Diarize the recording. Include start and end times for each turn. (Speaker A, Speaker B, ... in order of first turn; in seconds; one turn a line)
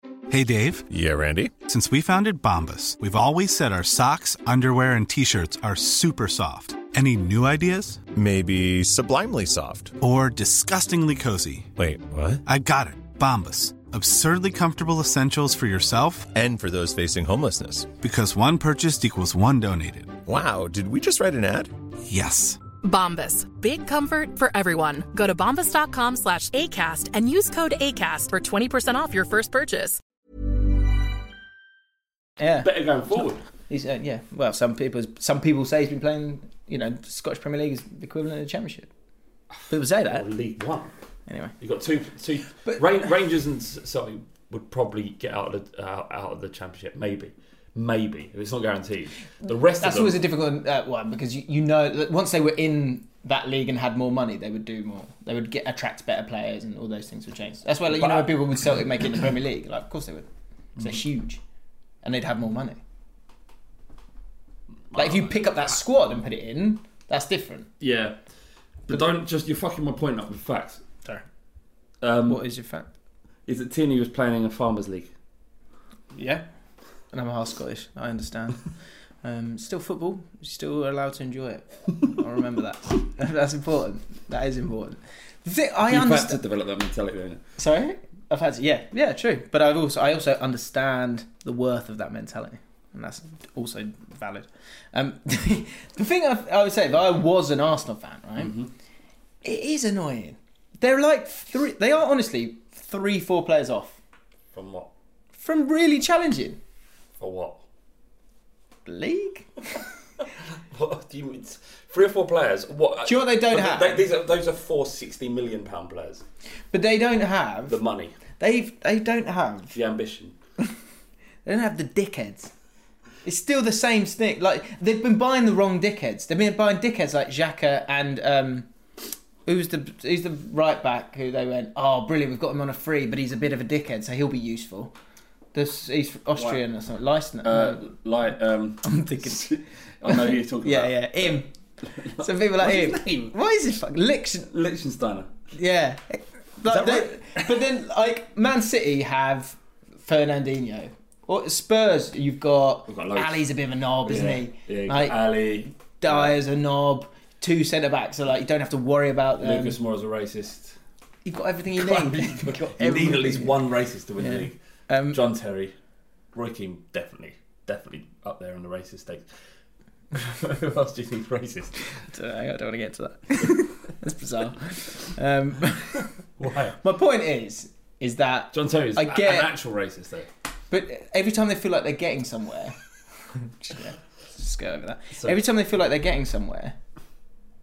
Speaker A: 0.3-0.9
Speaker B: 0.9-1.5
Speaker A: 1.6-8.1
Speaker B: 8.1-9.9
Speaker A: 10.0-11.7
Speaker B: 11.8-12.4
Speaker A: 12.4-16.3
Speaker B: 16.3-17.9
Speaker A: 18.0-20.2
Speaker B: 20.2-21.7
Speaker A: 22.1-22.6
Speaker C: 22.8-30.0
Speaker D: 32.4-32.7
Speaker E: 32.6-33.4
Speaker D: 33.7-38.9
Speaker E: 39.5-40.9
Speaker D: 39.7-40.2
Speaker D: 41.3-41.5
Speaker E: 41.6-50.2
Speaker D: 49.8-60.3
Speaker E: 57.9-58.3
Speaker D: 60.8-61.4
Speaker D: 62.0-62.8
Speaker E: 64.9-65.7
Speaker D: 64.9-67.7
Speaker E: 67.8-68.2
Speaker E: 68.8-70.8
Speaker E: 72.0-72.4
Speaker D: 72.3-72.9
Speaker E: 73.5-75.1
Speaker D: 76.1-76.4
Speaker D: 77.1-78.6
Speaker D: 79.2-86.4
Speaker E: 85.9-87.4
Speaker D: 87.6-98.5
Speaker E: 98.4-98.7
Speaker D: 99.4-104.0
Speaker E: 104.5-104.9
Speaker D: 105.4-106.6
Speaker E: 107.2-107.6
Speaker D: 108.8-109.6
Speaker E: 110.6-116.2
Speaker D: 113.0-114.0
Speaker D: 116.7-117.8
Speaker E: 117.7-118.2
Speaker D: 118.4-119.8
Speaker E: 119.7-120.3
Speaker D: 121.4-122.5
Speaker D: 123.2-128.7
Speaker D: 129.4-134.9
Speaker D: 135.5-137.8
Speaker E: 137.4-143.3
Speaker D: 138.8-139.5
Speaker D: 140.1-141.5
Speaker D: 142.2-144.5
Speaker E: 144.5-145.3
Speaker D: 145.5-155.2
Speaker E: 146.7-147.6
Speaker E: 152.9-153.4
Speaker E: 154.0-156.3
Speaker D: 156.0-159.8
Speaker E: 159.4-160.8
Speaker D: 161.2-163.6
Speaker E: 161.8-164.6
Speaker D: 164.2-165.2
Speaker E: 165.1-165.7
Speaker E: 166.3-169.3
Speaker E: 170.1-172.0
Speaker D: 172.0-176.1
Speaker E: 176.4-176.8
Speaker D: 176.8-179.5
Speaker E: 178.5-180.3
Speaker D: 180.7-182.8
Speaker D: 183.4-186.8